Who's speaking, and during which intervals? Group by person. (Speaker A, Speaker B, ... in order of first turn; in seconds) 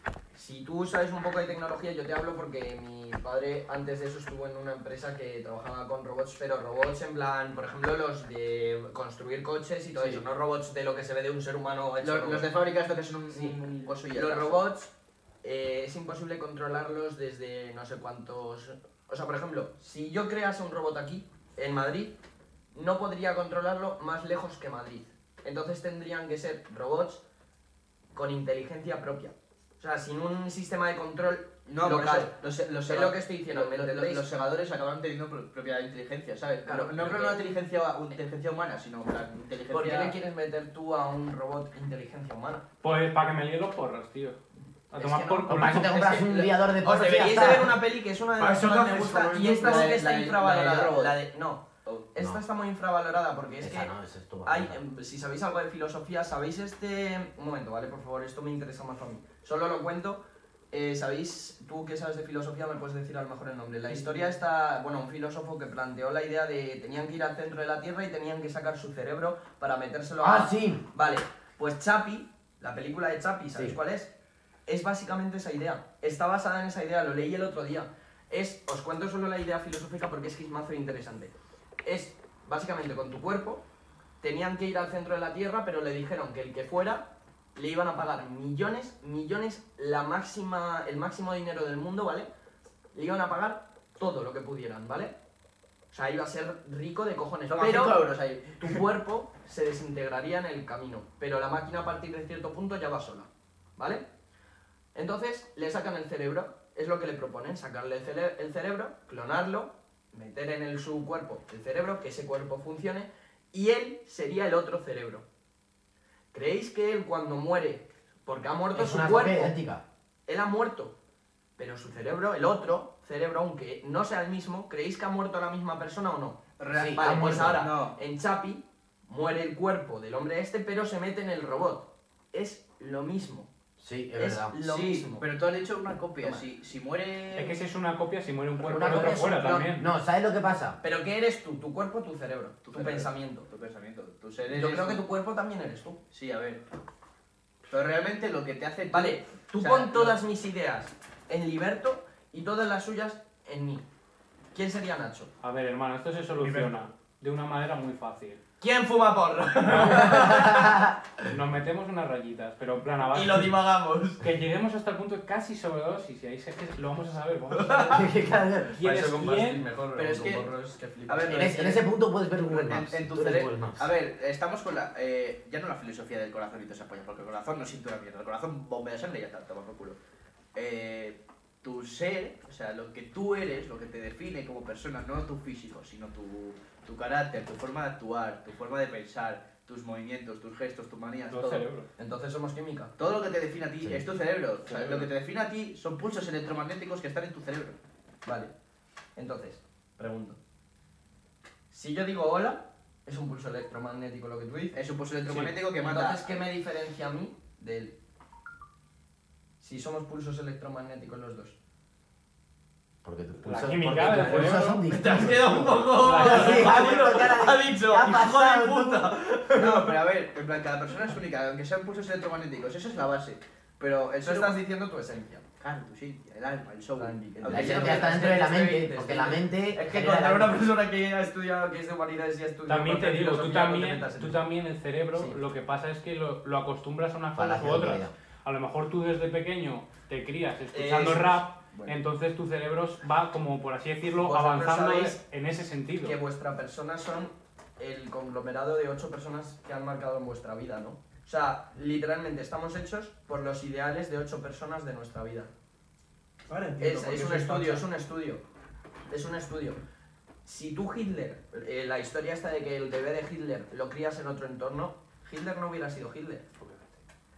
Speaker A: 0.3-12.5, 14.1-14.9, 15.4-22.1, 22.7-27.2, 28.1-32.3, 32.9-34.2, 36.7-37.4, 39.7-42.6, 45.0-53.9, 54.5-74.1, 74.7-81.3, 81.8-83.6, 84.2-92.3, 92.9-95.1, 95.9-98.0, 98.6-104.0, 104.9-115.2, 116.3-119.5, 120.3-120.9, 121.6-133.5, 134.2-135.2, 138.7-139.7, 140.8-143.5, 144.5-146.0, 148.9-153.8, 154.5-155.3, 158.6-160.9, 163.1-164.2, 167.5-168.2, 168.8-171.8, 192.0-192.9, 198.2-198.5, 199.2-200.4, 201.7-204.8, 205.8-207.9, 209.6-211.6, 214.0-219.9, 224.2-225.4, 227.0-234.4, 235.1-235.4, 240.7-241.9, 244.2-245.2, 246.0-255.5, 256.8-258.4, 259.1-259.8, 260.4-266.4
Speaker B: 9.9-10.2, 12.0-14.7, 31.7-40.2, 46.0-46.5, 49.4-51.2, 97.5-98.8, 126.6-128.0, 134.6-137.6, 142.7-145.1, 146.1-146.6, 147.7-150.2, 169.9-170.5, 171.1-171.8, 172.5-180.0, 180.6-191.7, 193.0-197.8, 204.8-206.4, 215.0-224.6, 225.6-228.2
Speaker C: 42.8-44.4, 44.9-46.1, 137.3-139.9, 155.4-158.4, 161.3-163.5, 164.2-168.1, 168.8-169.6, 191.3-191.9, 205.3-205.6, 213.4-214.9, 216.0-216.9, 232.7-246.2, 266.6-267.0
Speaker D: 45.5-47.8, 53.6-54.8, 70.2-70.8, 118.7-119.8, 126.7-127.7, 133.8-134.5, 138.7-140.8, 160.2-160.7, 167.9-168.8, 171.3-173.9, 213.0-219.1, 227.5-230.6, 237.4-238.1
Speaker E: 48.4-50.0, 156.4-156.9, 256.5-257.9